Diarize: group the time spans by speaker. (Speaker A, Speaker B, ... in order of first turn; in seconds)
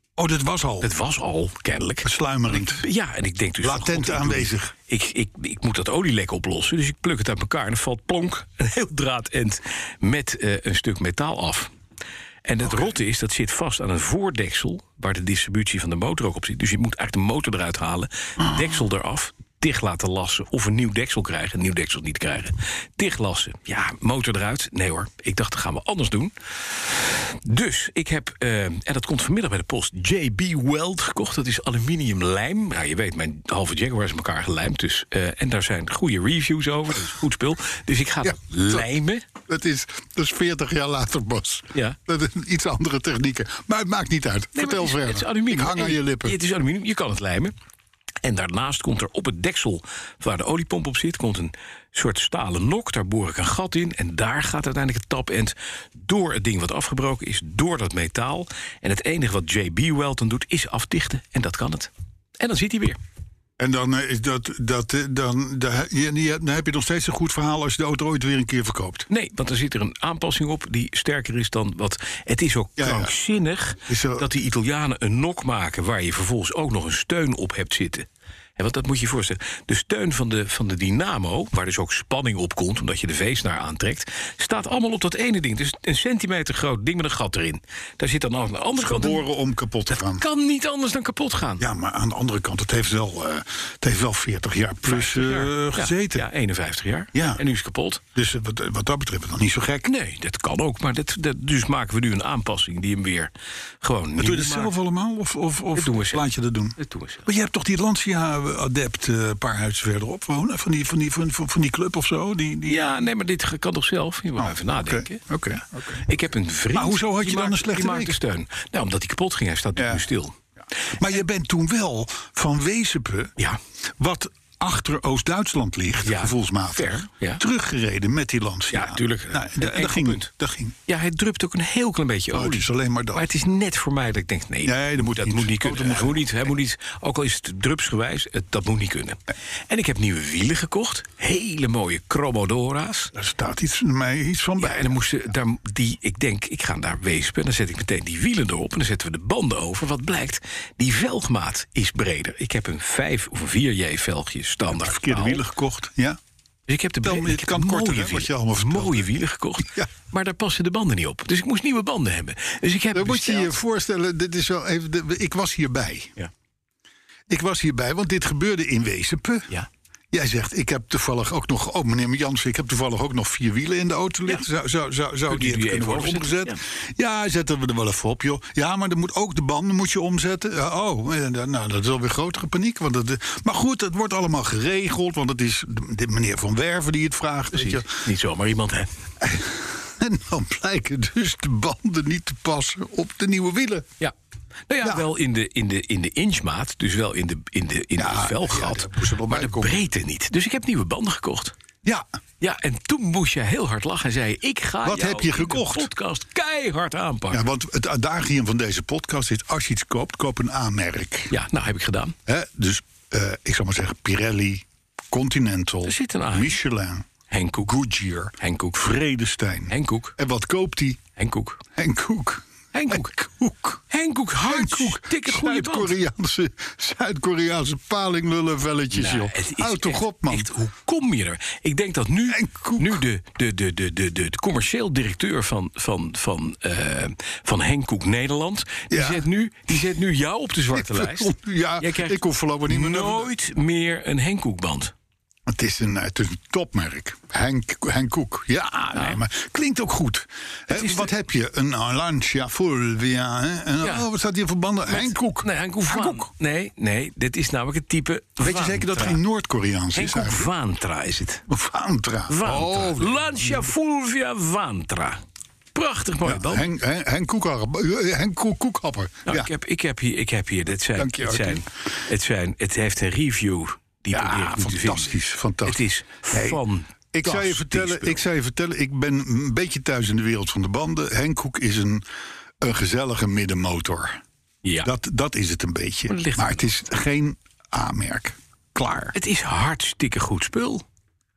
Speaker A: 0.2-0.9, 2.0-2.8, 3.6-4.7, 12.6-12.9, 38.2-46.4, 63.6-69.1, 72.8-73.2, 73.9-74.3, 88.8-90.2, 91.6-96.3, 97.1-97.4, 98.1-99.9, 104.2-113.0, 114.4-116.0, 116.7-118.2, 119.8-120.1, 121.0-123.3, 124.0-130.7, 132.3-133.3, 134.6-136.3, 143.1-145.1, 154.7-156.2, 157.0-159.1, 159.6-159.9, 162.9-166.1, 167.3-169.5, 170.1-188.0, 189.2-193.9, 198.0-199.9, 204.8-205.9, 207.3-211.3, 212.3-217.1, 217.6-221.0, 221.8-223.8, 224.4-230.5, 232.3-233.0, 238.9-239.3, 240.7-243.3, 245.5-256.3, 258.4-260.5, 261.5-263.7, 266.2-269.5, 270.9-271.6, 274.1-276.6, 277.1-282.0, 282.6-284.2, 284.8-289.1
Speaker B: 0.8-11.7, 12.4-39.2, 44.5-47.5, 48.2-63.0, 69.1-89.2, 89.9-91.6, 94.8-98.0, 99.8-104.7, 105.7-107.2, 112.6-115.2, 116.0-120.3, 126.0-127.4, 128.7-130.3, 130.9-143.1, 144.6-155.4, 156.7-163.6, 175.3-176.6, 187.5-188.9, 194.7-201.5, 202.4-207.4, 211.3-212.1, 215.8-216.6, 217.3-217.7, 218.4-218.9, 219.7-220.1, 221.2-221.6, 222.7-225.9, 228.9-244.9, 248.9-249.2, 250.7-251.1, 254.9-259.2, 259.9-261.4, 262.3-265.2, 265.7-266.7, 269.2-278.2, 284.6-284.9, 286.1-286.7, 289.1-290.8